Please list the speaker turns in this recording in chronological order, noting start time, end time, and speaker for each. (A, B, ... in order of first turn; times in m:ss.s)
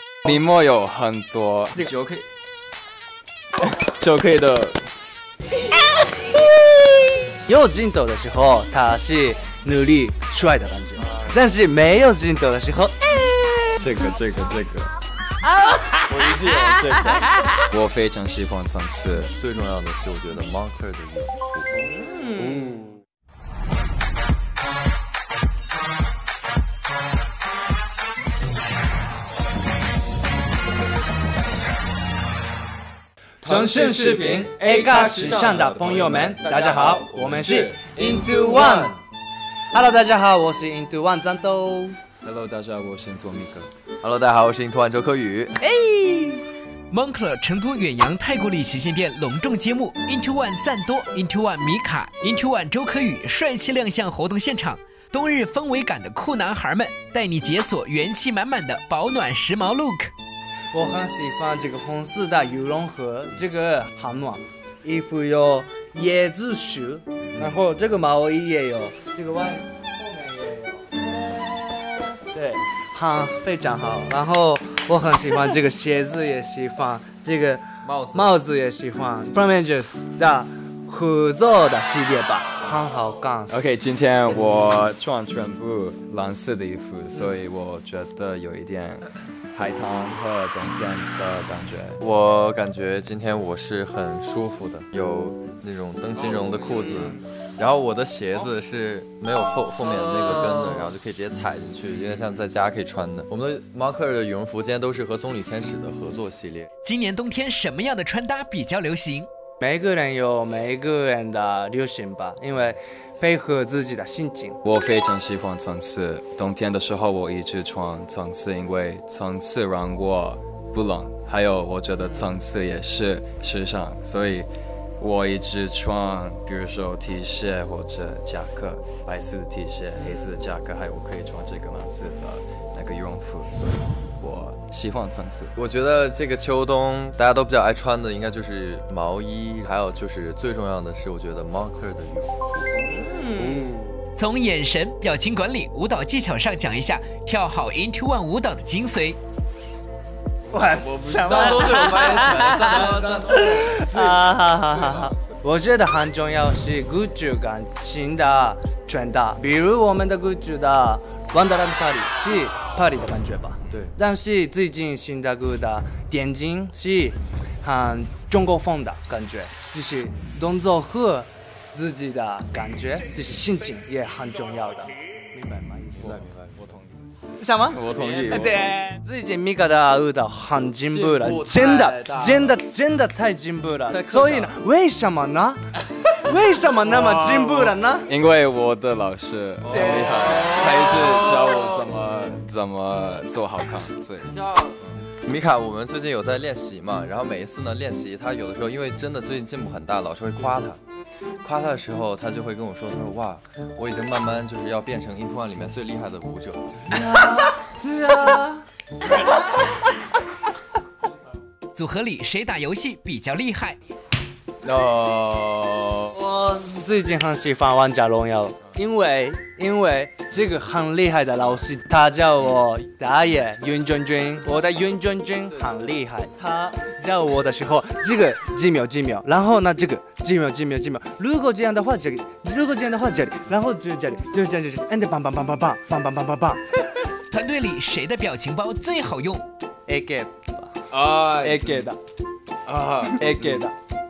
0:00.2-0:02.2 A
0:03.6-0:04.8 A
0:07.4-0:13.1 B
0:11.0-0:11.4 A
0:13.8-0:14.9 A
0:16.1-0:19.3 A
0:19.4-0:21.7 C
0:21.8-0:22.8 B
0:33.4-0:39.0 B
0:33.4-0:38.9 A
0:36.7-0:37.4 C
0:38.0-0:38.9 C
0:39.7-0:42.0 B
0:42.2-0:43.7 A
0:44.0-0:45.5 C
0:45.6-1:00.1 D
1:00.7-1:11.0 B
1:07.3-1:07.6 C
1:12.2-1:23.6 B
1:17.8-1:18.3 C
1:23.5-1:32.0 A
1:32.0-1:46.7 C
1:36.4-1:36.9 A
1:46.8-1:49.3 D
1:49.6-1:54.6 B
1:54.6-2:15.5 A
2:15.5-2:22.6 C
2:22.8-2:23.9 B
2:24.2-2:29.2 D
2:30.5-2:56.2 B
2:30.7-2:35.4 A
2:56.0-2:57.1 A
2:56.0-2:56.6 C
2:57.3-3:05.6 B
2:57.7-2:58.7 A
2:57.9-2:58.3 C
3:01.0-3:02.6 C
3:03.9-3:04.5 C
3:06.1-3:08.1 B
3:08.1-3:14.5 A
3:09.6-3:10.4 C
3:14.4-3:20.8 C
3:21.4-3:27.0 C
3:26.9-3:28.6 B
3:31.7-3:33.8 D
3:34.6-3:36.1 C
3:36.1-3:56.6 B
3:57.3-3:59.4 D
3:59.9-4:02.0 B
4:00.9-4:01.9 A
4:02.6-4:03.7 A
4:03.2-4:03.7 B